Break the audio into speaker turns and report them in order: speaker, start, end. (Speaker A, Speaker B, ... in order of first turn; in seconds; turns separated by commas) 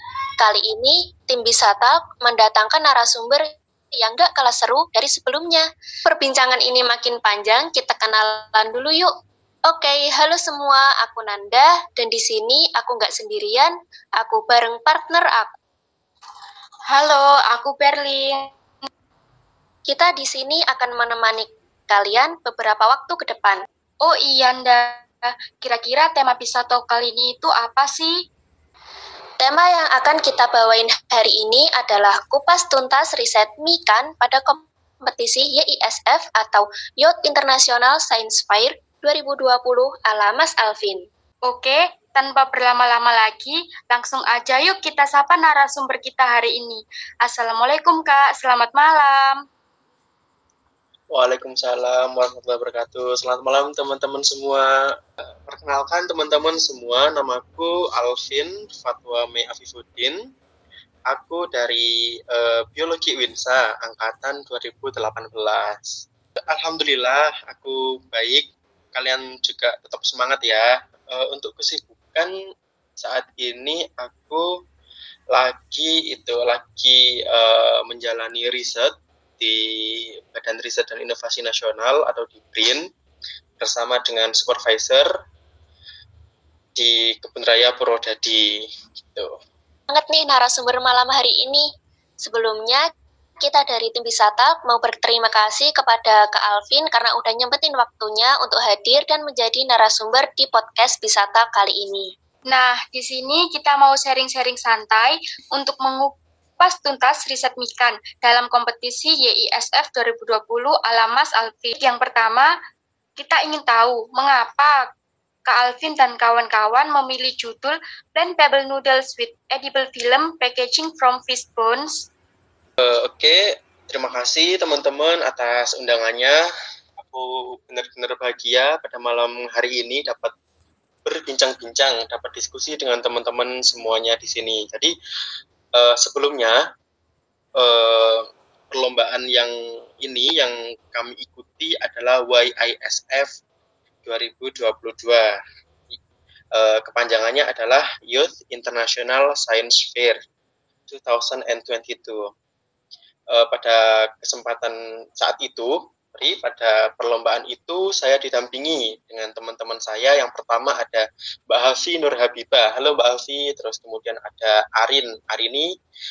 Speaker A: 0.4-9.1, Speaker A: 9.7-15.5, Speaker B: 16.9-18.5, Speaker A: 19.9-23.6, Speaker B: 24.0-28.2, Speaker A: 29.4-41.1, Speaker B: 41.5-49.5, Speaker C: 51.1-60.2, Speaker C: 61.1-72.3, Speaker C: 73.0-74.6, Speaker C: 75.3-82.9, Speaker C: 83.6-85.1, Speaker C: 86.8-89.4, Speaker A: 89.9-91.7, Speaker A: 92.2-92.8, Speaker A: 93.4-102.1, Speaker B: 102.5-112.5, Speaker B: 113.2-114.9, Speaker B: 115.5-122.1, Speaker C: 122.8-126.4, Speaker C: 127.0-130.3, Speaker C: 131.1-134.9, Speaker C: 135.8-136.6, Speaker C: 137.6-143.4, Speaker C: 144.0-145.4, Speaker C: 146.5-150.2, Speaker C: 150.9-152.3, Speaker C: 153.3-165.7